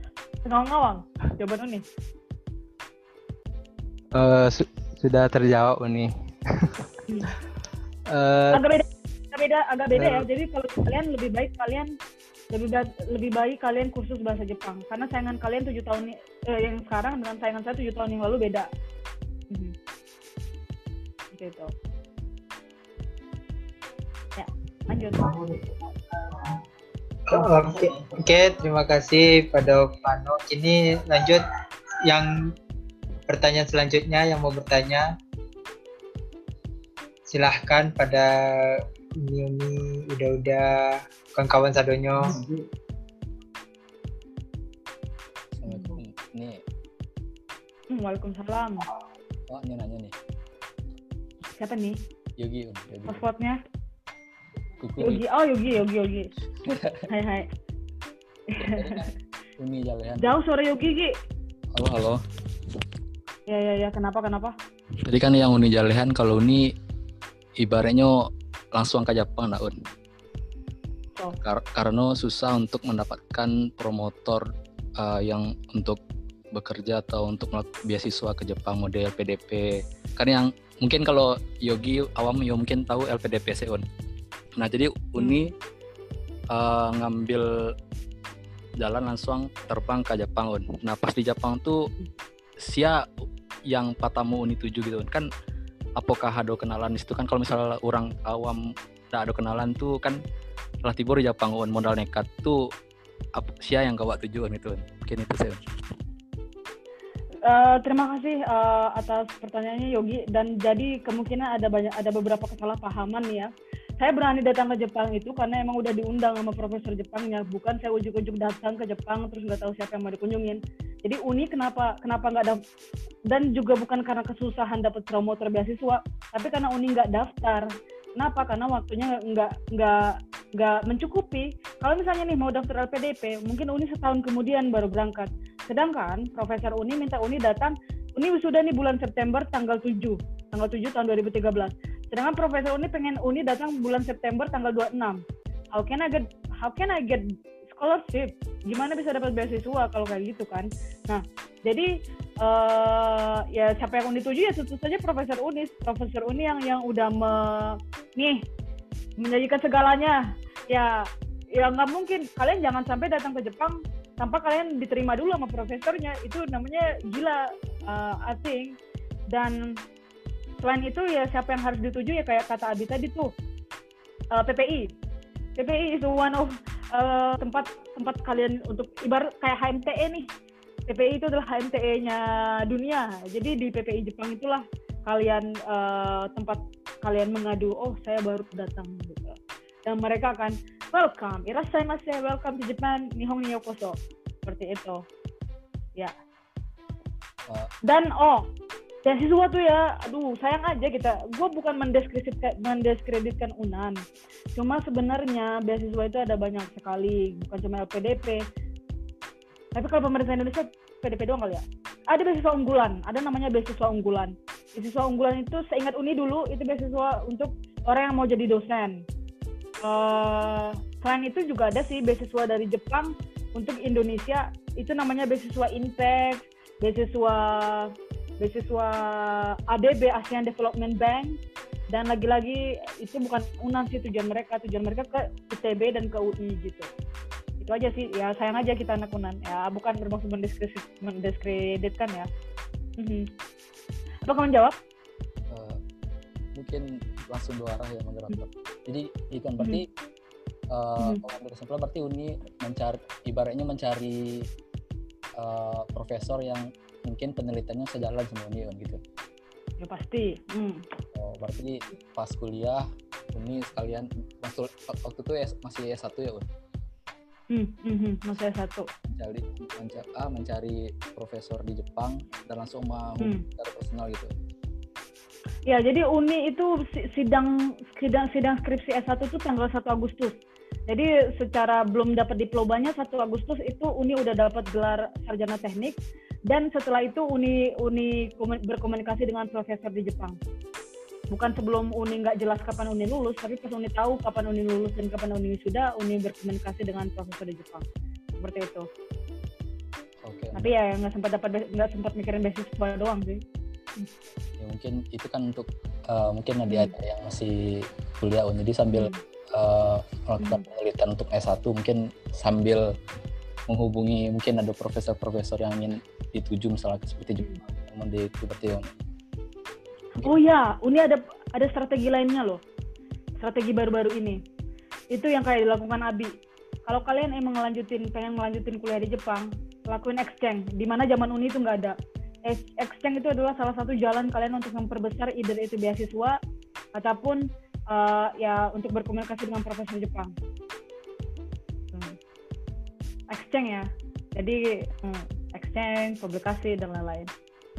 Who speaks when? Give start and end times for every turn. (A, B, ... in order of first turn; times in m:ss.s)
0:00.5-0:01.8 A
0:04.2-0:06.1 B
0:08.1-0:08.6 B
0:08.5-0:11.9 A
0:09.9-0:10.3 B
0:12.5-0:18.7 A
0:21.3-0:21.7 A
0:24.4-0:25.3 A
0:25.2-0:25.6 C
0:27.3-0:31.4 C
0:32.1-0:32.5 C
0:33.3-0:35.1 C
0:37.3-0:42.4 C
0:45.6-0:46.6 D
0:45.7-0:46.0 A
0:47.9-0:48.9 A
0:49.5-0:50.1 D
0:51.6-0:52.0 A
0:52.4-0:53.2 D
0:53.1-0:53.6 A
0:54.8-0:55.2 D
0:55.0-0:56.3 A
0:56.7-0:57.0 D
0:57.1-0:57.5 A
0:58.6-0:59.1 A
0:58.6-1:00.4 D
1:00.2-1:01.1 A
1:01.8-1:02.2 D
1:03.5-1:04.6 A
1:05.0-1:06.7 D
1:07.6-1:09.8 D
1:11.4-1:14.4 D
1:15.0-1:16.0 D
1:16.5-1:23.9 D
1:24.6-1:25.5 D
1:25.2-1:25.5 A
1:26.5-1:27.5 D
1:28.8-1:31.9 D
1:32.6-1:33.1 D
1:33.7-1:35.3 D
1:36.0-1:38.6 D
1:39.1-1:40.2 D
1:40.8-1:42.7 D
1:43.4-1:45.6 D
1:47.4-1:53.5 A
1:54.0-2:02.6 A
2:03.3-2:25.2 A
2:25.8-2:31.9 A
2:32.4-2:38.4 A
2:39.2-2:48.7 A
2:49.3-2:49.6 A
2:50.6-2:53.3 A
2:54.3-2:54.9 A
2:55.6-3:00.3 A
3:00.9-3:15.0 A
3:17.8-3:18.5 A
3:19.0-3:24.0 A
3:24.6-3:28.4 A
3:29.8-3:39.0 A
3:39.8-3:51.4 A
3:51.9-3:56.9 A
3:57.6-4:02.3 A
4:03.0-4:03.3 A
4:04.3-4:04.8 A
4:05.5-4:05.8 D
4:06.6-4:09.9 D
4:10.7-4:14.5 D
4:15.4-4:19.0 D
4:19.8-4:20.8 A
4:21.1-4:26.5 D
4:27.5-4:28.9 A
4:29.1-4:34.3 D
4:35.7-4:40.4 A
4:40.9-4:46.0 A
4:46.5-4:50.4 A
4:51.3-4:57.8 A
4:58.4-4:58.9 A
5:00.2-5:00.7 D
5:00.6-5:03.4 A
5:04.6-5:12.8 D
5:06.7-5:06.9 A
5:08.9-5:09.2 A
5:10.4-5:10.6 A
5:13.7-5:18.9 D
5:20.2-5:22.6 A
5:23.4-5:24.4 A
5:25.1-5:26.3 A
5:26.9-5:32.0 A
5:32.5-5:36.4 A
5:37.0-5:40.3 A
5:43.3-5:47.3 A